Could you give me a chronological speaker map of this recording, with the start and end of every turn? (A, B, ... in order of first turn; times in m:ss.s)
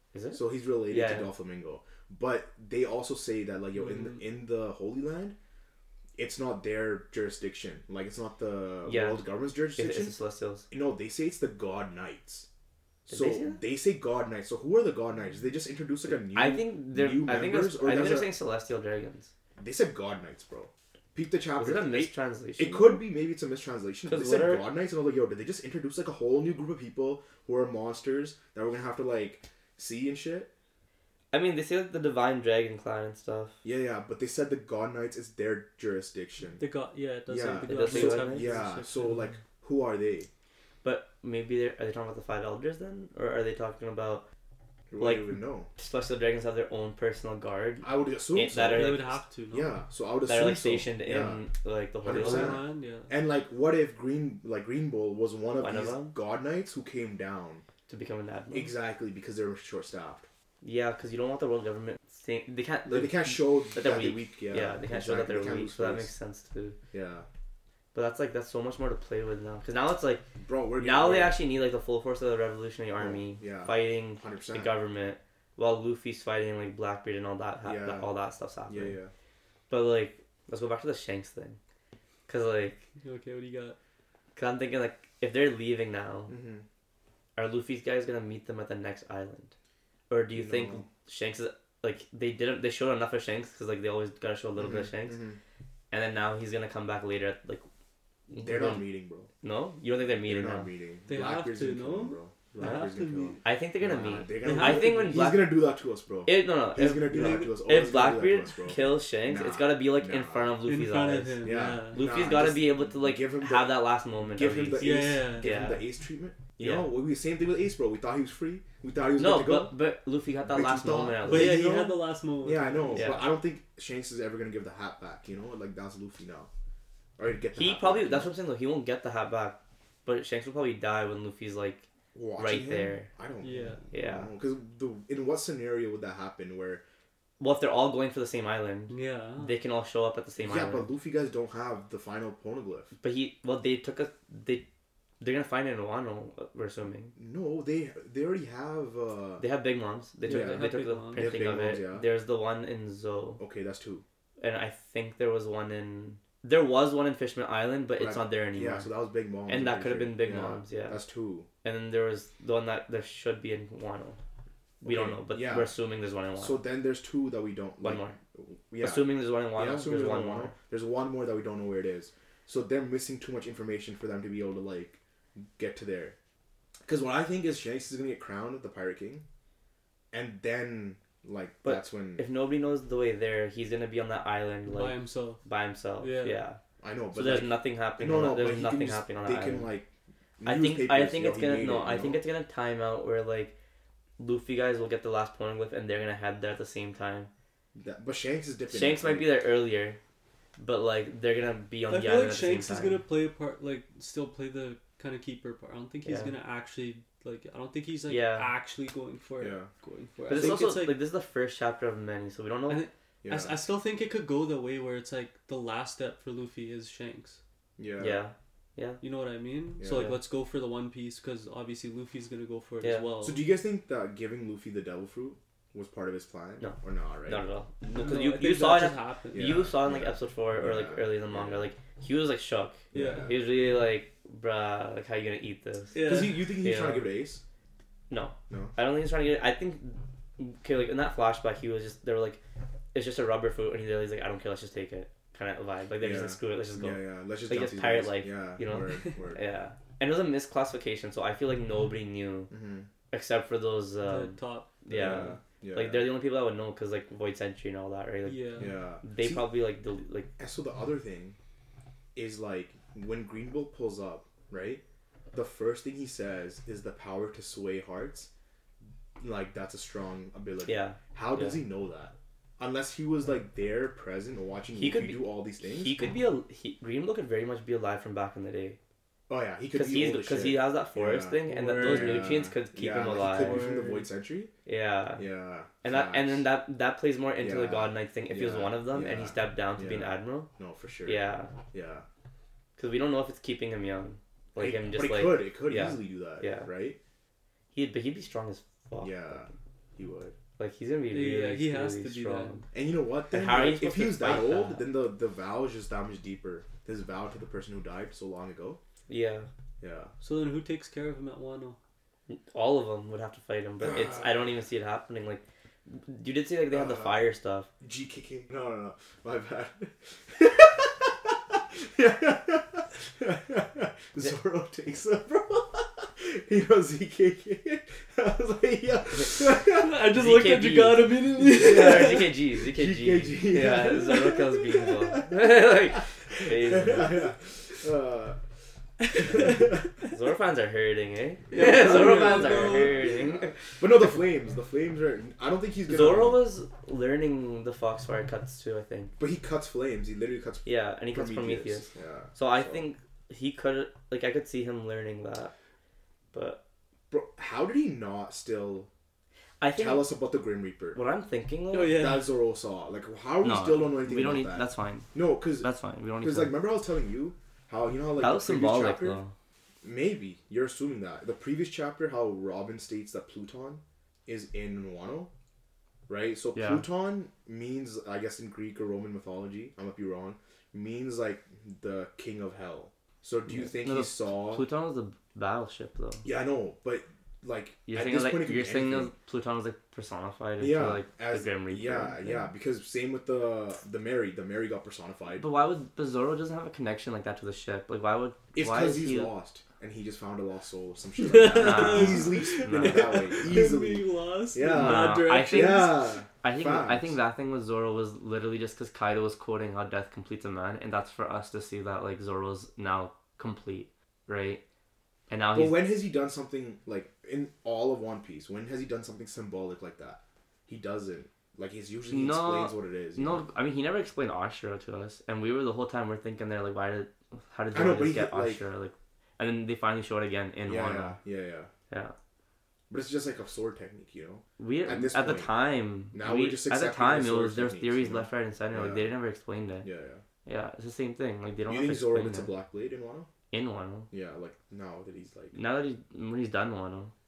0:00.1-0:01.3 A
0:00.3-0:05.4 B
0:03.8-0:04.2 C
0:06.2-0:10.2 B
0:08.8-0:10.7 A
0:10.7-0:12.5 B
0:13.1-0:18.3 B
0:13.1-0:13.6 A
0:16.2-0:19.3 A
0:19.6-0:30.5 B
0:21.6-0:23.0 A
0:24.1-0:24.7 A
0:31.3-0:33.6 A
0:33.6-0:36.6 B
0:36.6-0:39.4 C
0:37.3-0:40.3 B
0:37.7-0:38.5 A
0:40.8-0:44.2 A
0:44.9-0:45.7 B
0:45.0-0:49.2 A
0:47.8-0:51.4 B
0:48.6-0:49.8 C
0:50.3-0:52.6 A
0:52.0-0:57.6 B
0:52.1-0:53.1 C
0:55.6-0:56.1 A
0:57.9-0:58.7 A
0:58.5-1:00.3 B
1:00.6-1:06.8 A
1:02.8-1:06.1 B
1:06.9-1:07.3 B
1:07.9-1:10.2 A
1:10.4-1:11.4 B
1:10.8-1:19.0 A
1:13.0-1:14.7 B
1:17.6-1:18.1 B
1:18.7-1:19.1 B
1:19.7-1:21.6 A
1:22.3-1:22.8 A
1:23.0-1:23.8 C
1:24.3-1:26.3 A
1:26.3-1:26.6 B
1:27.4-1:29.5 A
1:30.1-1:35.2 A
1:30.3-1:30.8 B
1:34.6-1:35.4 B
1:35.9-1:37.6 A
1:38.3-1:40.7 A
1:38.4-1:39.3 B
1:40.2-1:50.5 B
1:41.1-1:43.4 C
1:42.6-1:42.9 A
1:43.4-1:45.6 A
1:44.4-1:45.4 C
1:46.2-1:55.8 A
1:47.0-1:47.5 C
1:50.6-1:52.0 C
1:51.4-1:59.7 B
1:54.6-1:55.5 C
1:56.6-1:56.9 A
1:59.2-2:01.6 A
2:00.4-2:06.5 B
2:01.2-2:03.2 C
2:02.9-2:03.3 A
2:07.2-2:08.3 B
2:07.5-2:13.1 A
2:12.1-2:16.8 B
2:13.4-2:13.8 C
2:13.9-2:14.3 A
2:17.4-2:20.9 A
2:18.9-2:19.5 C
2:20.4-2:22.9 B
2:23.0-2:24.6 A
2:25.2-2:27.1 A
2:27.2-2:29.4 B
2:29.4-2:33.4 A
2:30.2-2:31.3 C
2:30.3-2:32.1 B
2:33.4-2:34.0 B
2:34.4-2:38.9 A
2:38.0-2:41.5 B
2:39.5-2:41.0 A
2:41.6-2:44.2 A
2:44.8-2:46.6 A
2:44.8-2:45.7 B
2:46.4-2:56.2 B
2:47.8-2:48.2 A
2:48.8-2:50.5 A
2:56.8-2:59.2 B
3:00.1-3:02.2 B
3:01.6-3:06.6 A
3:04.7-3:05.4 C
3:06.0-3:06.4 C
3:06.8-3:12.2 B
3:07.1-3:09.7 A
3:10.4-3:13.5 A
3:14.2-3:17.3 A
3:17.7-3:19.3 B
3:18.7-3:20.0 A
3:20.6-3:23.0 A
3:21.9-3:31.0 C
3:26.0-3:26.3 A
3:28.1-3:28.5 A
3:29.4-3:29.7 B
3:30.3-3:32.8 A
3:30.3-3:30.6 B
3:32.7-3:37.4 C
3:33.2-3:33.6 B
3:37.8-3:38.2 B
3:38.0-3:39.0 A
3:39.0-3:43.4 C
3:39.8-3:40.2 B
3:39.9-3:40.2 A
3:42.8-3:43.1 A
3:43.2-3:47.5 B
3:46.6-3:57.1 A
3:47.9-3:49.7 C
3:49.3-3:51.7 B
3:52.9-3:53.4 B
3:52.9-3:53.7 C
3:55.9-3:56.6 C
3:56.0-3:57.4 B
3:58.1-4:02.4 A
3:58.5-3:58.8 B
4:02.9-4:12.5 A
4:06.0-4:09.4 B
4:12.5-4:12.9 B
4:13.1-4:20.3 A
4:14.0-4:15.2 C
4:14.9-4:16.1 B
4:18.2-4:18.8 C
4:18.6-4:19.5 B
4:20.4-4:21.4 B
4:22.1-4:24.8 B
4:25.3-4:28.3 B
4:29.2-4:36.1 B
4:30.6-4:31.6 A
4:34.8-4:38.8 A
4:39.3-4:44.5 B
4:39.7-4:43.6 A
4:41.4-4:42.4 C
4:43.1-4:44.1 C
4:44.6-4:45.2 A
4:45.2-4:46.5 B
4:45.8-4:50.5 A
4:47.4-4:52.0 B
4:51.0-4:51.5 A
4:52.8-4:56.7 A
4:54.6-4:57.0 B
4:57.7-4:59.5 A
4:59.0-5:00.4 B
5:00.6-5:02.6 A
5:01.1-5:02.6 C
5:02.7-5:08.8 B
5:03.3-5:04.9 A
5:09.1-5:09.5 A
5:09.8-5:10.1 B
5:10.2-5:11.8 C
5:12.3-5:17.7 A
5:13.8-5:14.3 B
5:16.7-5:17.2 B
5:17.8-5:30.0 B
5:29.6-5:32.3 C
5:30.1-5:37.2 A
5:31.4-5:38.4 B
5:33.7-5:34.0 C
5:39.1-5:39.7 C
5:39.1-5:40.1 B
5:40.1-5:43.6 A
5:41.5-5:43.2 C
5:41.5-5:46.4 B
5:45.9-5:49.1 A
5:49.2-5:52.8 B
5:50.6-5:55.5 A
5:56.3-5:56.6 A
5:57.1-5:58.9 B
5:59.6-6:00.1 A
5:59.7-6:01.0 B
6:00.9-6:02.1 A
6:01.7-6:02.3 C
6:01.9-6:05.7 B
6:03.4-6:06.6 A
6:06.2-6:09.2 B
6:08.2-6:09.3 A
6:09.8-6:15.3 B
6:16.1-6:24.6 B
6:16.5-6:16.9 A
6:23.4-6:26.2 A
6:26.2-6:29.1 B
6:27.9-6:32.4 A
6:30.6-6:35.4 B
6:35.4-6:39.3 A
6:38.5-6:47.2 B
6:41.2-6:46.0 C
6:41.5-6:43.4 A
6:44.7-6:54.6 A
6:55.3-6:55.8 A
6:55.5-7:03.4 B
7:02.1-7:11.2 A
7:07.7-7:08.6 B
7:10.6-7:11.7 B
7:12.9-7:15.5 B
7:14.6-7:19.8 A
7:16.1-7:19.1 B
7:19.8-7:20.2 B
7:20.4-7:22.5 A
7:21.7-7:23.3 B
7:23.5-7:24.1 A
7:24.1-7:25.6 B
7:25.5-7:27.1 A